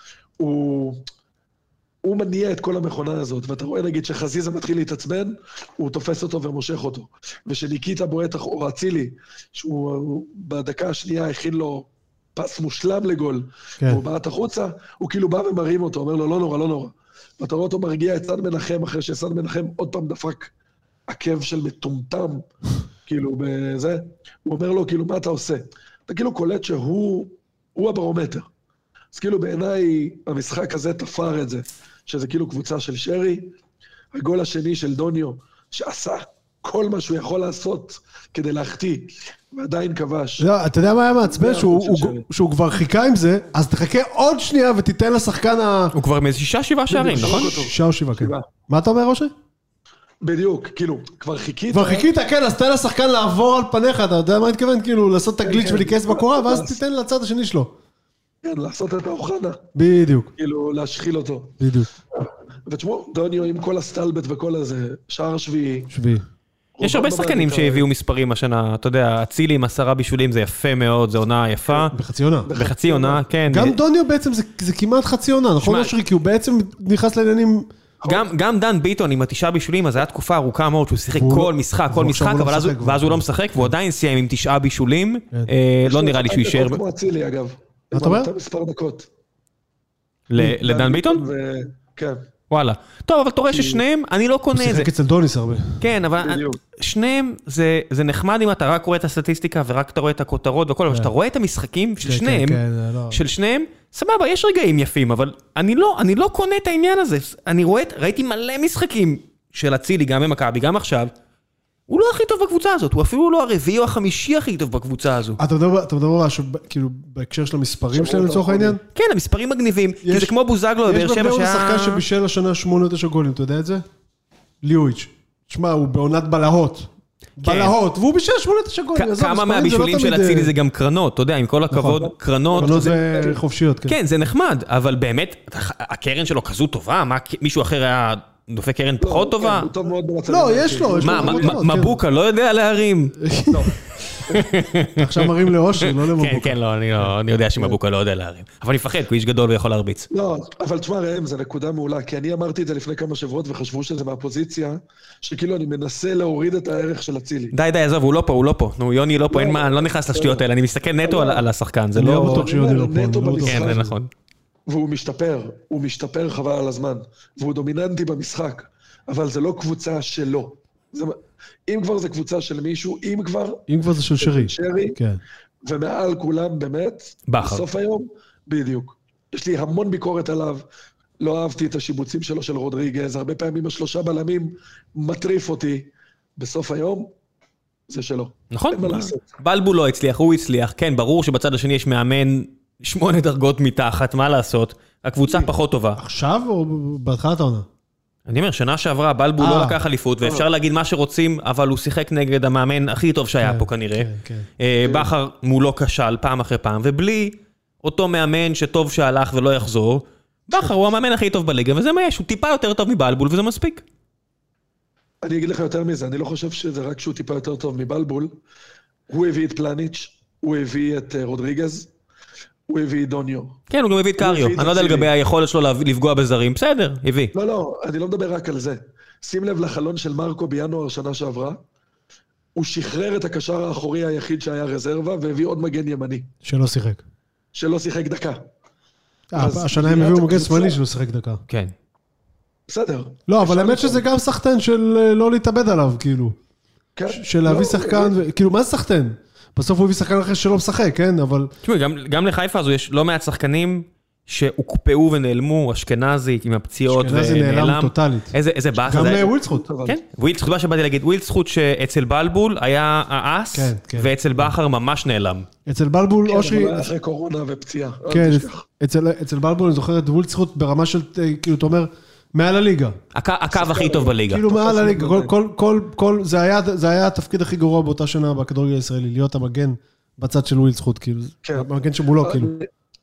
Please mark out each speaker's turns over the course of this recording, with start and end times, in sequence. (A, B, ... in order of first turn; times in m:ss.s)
0:00.4-0:01.0 A
0:02.0-0:20.5 A
0:21.1-0:22.4 A
0:23.1-0:28.5 A
0:29.1-0:33.5 A
0:34.1-0:40.5 A
0:40.4-0:45.9 B
0:41.2-0:42.2 A
0:45.9-0:47.6 C
0:46.9-0:48.4 A
0:47.2-0:49.3 B
0:50.2-0:52.1 A
0:51.7-0:57.7 B
0:55.4-0:56.8 A
0:58.4-0:59.6 A
0:59.7-1:00.3 B
1:00.4-1:01.6 A
1:01.6-1:01.9 B
1:02.6-1:05.9 A
1:05.9-1:06.2 B
1:06.8-1:07.9 A
1:06.8-1:11.9 C
1:11.9-1:12.5 B
1:12.4-1:13.2 A
1:12.5-1:13.8 C
1:13.5-1:17.7 B
1:15.6-1:15.9 C
1:18.0-1:18.2 A
1:18.0-1:26.8 C
1:21.1-1:23.7 B
1:25.8-1:29.1 A
1:27.9-1:28.3 B
1:30.3-1:31.2 C
1:30.4-1:32.2 A
1:32.5-1:34.9 C
1:33.5-1:33.8 A
1:34.5-1:35.8 B
1:35.8-1:51.1 C
1:36.2-1:36.6 A
1:42.0-1:43.2 B
1:51.9-1:55.4 C
1:55.4-1:58.8 B
1:57.9-1:58.8 A
1:58.9-2:02.0 C
2:00.0-2:03.8 B
2:04.6-2:10.5 B
2:07.4-2:07.8 C
2:08.9-2:13.0 C
2:11.7-2:12.0 B
2:12.0-2:13.4 A
2:12.6-2:14.0 B
2:13.9-2:19.7 C
2:19.0-2:21.6 A
2:20.3-2:22.0 B
2:21.0-2:23.2 C
2:23.2-2:23.7 B
2:23.5-2:24.5 A
2:24.2-2:30.1 C
2:25.0-2:27.8 B
2:30.1-2:37.5 A
2:37.5-2:42.5 C
2:39.3-2:40.4 A
2:41.0-2:41.4 A
2:42.0-2:43.9 B
2:42.0-2:43.8 A
2:43.4-2:44.1 C
2:44.7-2:53.6 A
2:53.7-2:55.2 B
2:54.2-2:55.0 A
2:55.6-3:00.6 A
2:57.3-2:57.6 C
3:01.2-3:07.1 A
3:07.9-3:09.2 A
3:08.5-3:16.0 C
3:16.0-3:17.6 B
3:18.3-3:33.8 C
3:19.4-3:19.8 B
3:23.4-3:24.5 B
3:24.8-3:25.1 A
3:35.2-3:38.3 A
3:39.1-3:41.9 A
3:42.7-3:43.6 A
3:43.7-3:47.3 C
3:44.2-3:45.1 A
3:47.3-3:51.6 A
3:52.6-3:56.3 A
3:56.4-3:57.0 B
3:57.5-3:58.4 A
3:59.3-4:01.4 B
3:59.3-4:00.8 A
4:01.5-4:01.7 C
4:02.7-4:04.0 A
4:03.3-4:06.4 B
4:07.0-4:08.2 A
4:07.1-4:11.5 B
4:11.6-4:19.3 C
4:16.9-4:18.3 B
4:18.9-4:19.6 B
4:18.9-4:20.0 A
4:19.8-4:25.5 C
4:23.5-4:24.5 B
4:25.6-4:26.9 B
4:26.2-4:28.6 A
4:28.1-4:33.0 B
4:33.1-4:34.5 C
4:33.5-4:35.3 A
4:34.3-4:42.5 B
4:41.4-4:42.7 A